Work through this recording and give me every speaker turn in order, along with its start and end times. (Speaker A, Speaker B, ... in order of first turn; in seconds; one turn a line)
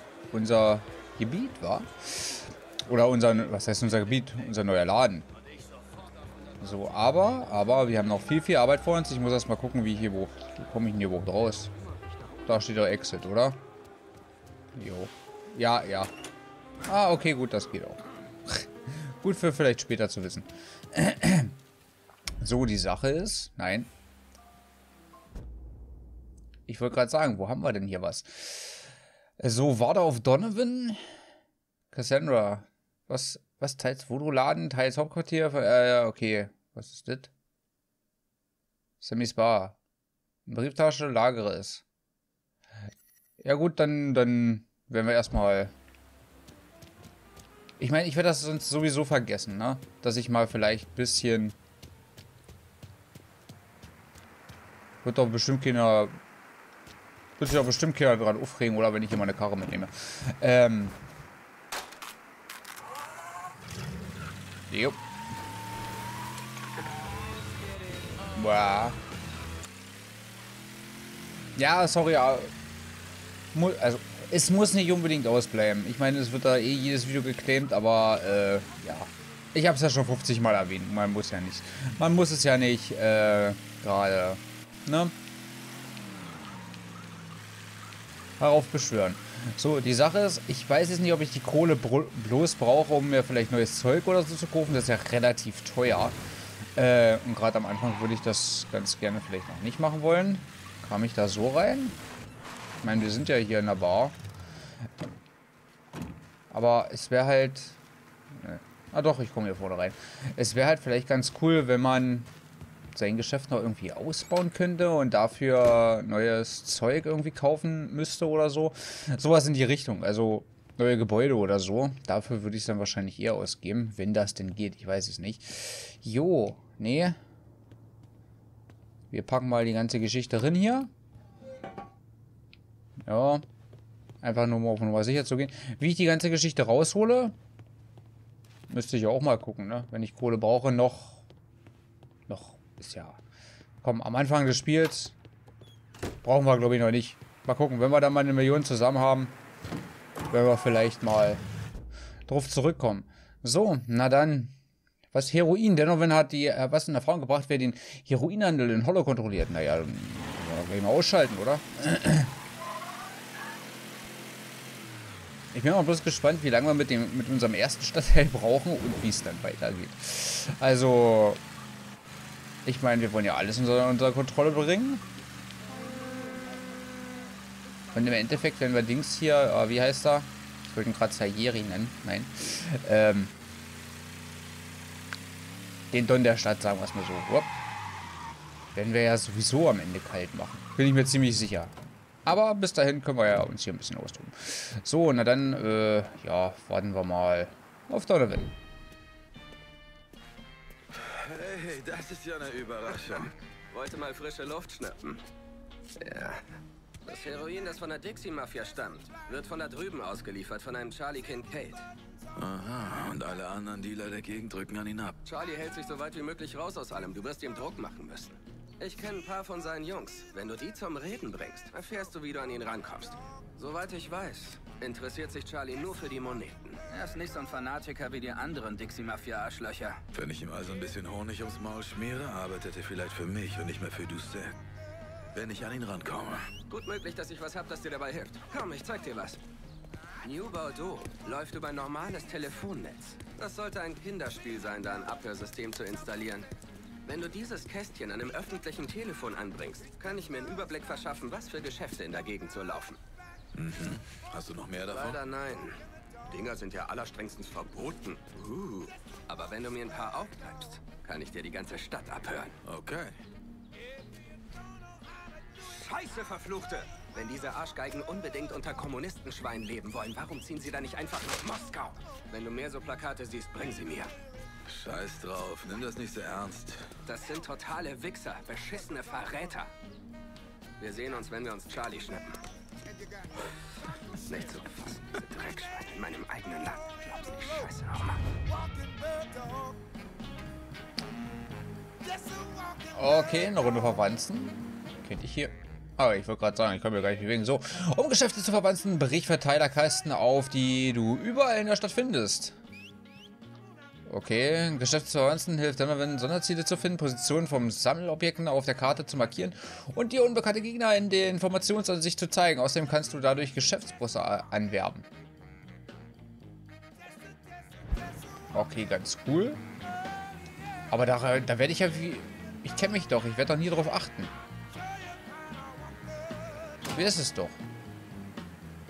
Speaker A: 0.3-5.3
Speaker A: 6.6-11.7
Speaker A: 12.4-13.6
Speaker A: 14.7-16.1
Speaker A: 16.9-21.5
Speaker A: 22.4-23.9
Speaker A: 26.7-31.0
Speaker A: 31.9-37.3
Speaker A: 39.0-39.8
Speaker A: 40.5-41.8
Speaker A: 43.4-45.7
Speaker A: 47.8-51.6
Speaker A: 55.0-56.2
Speaker A: 57.4-61.0
Speaker A: 64.7-65.0
Speaker A: 68.3-69.0
Speaker A: 71.5-72.5
Speaker A: 73.5-85.1
Speaker A: 88.4-96.2
Speaker A: 96.8-102.0
Speaker A: 102.8-104.2
Speaker A: 106.5-107.8
Speaker A: 108.3-112.3
Speaker A: 112.9-127.2
Speaker A: 129.1-130.9
Speaker A: 133.0-133.4
Speaker A: 134.2-137.3
Speaker A: 138.7-141.2
Speaker A: 142.3-143.2
Speaker A: 143.8-145.1
Speaker A: 146.2-149.3
Speaker A: 150.3-151.4
Speaker A: 152.3-154.5
Speaker A: 155.1-162.3
Speaker A: 165.5-171.4
Speaker A: 172.6-175.0
Speaker A: 177.9-183.3
Speaker A: 185.9-187.5
Speaker A: 188.7-191.7
Speaker A: 192.2-198.5
Speaker B: 200.9-203.3
Speaker C: 203.7-205.2
Speaker C: 206.0-206.4
Speaker C: 207.0-211.8
Speaker B: 212.3-215.2
Speaker C: 215.2-230.0
Speaker B: 230.1-234.6
Speaker B: 235.3-236.5
Speaker C: 236.7-239.4
Speaker C: 240.2-246.5
Speaker C: 247.0-253.0
Speaker B: 253.5-255.2
Speaker C: 254.9-262.6
Speaker B: 262.6-263.1
Speaker C: 265.6-274.1
Speaker B: 274.6-276.9
Speaker C: 277.1-279.7
Speaker C: 280.8-282.4
Speaker C: 284.1-288.3
Speaker A: 292.9-302.6
Speaker A: 304.1-315.0
Speaker A: 318.5-319.6
Speaker A: 320.9-324.3
Speaker A: 326.9-327.6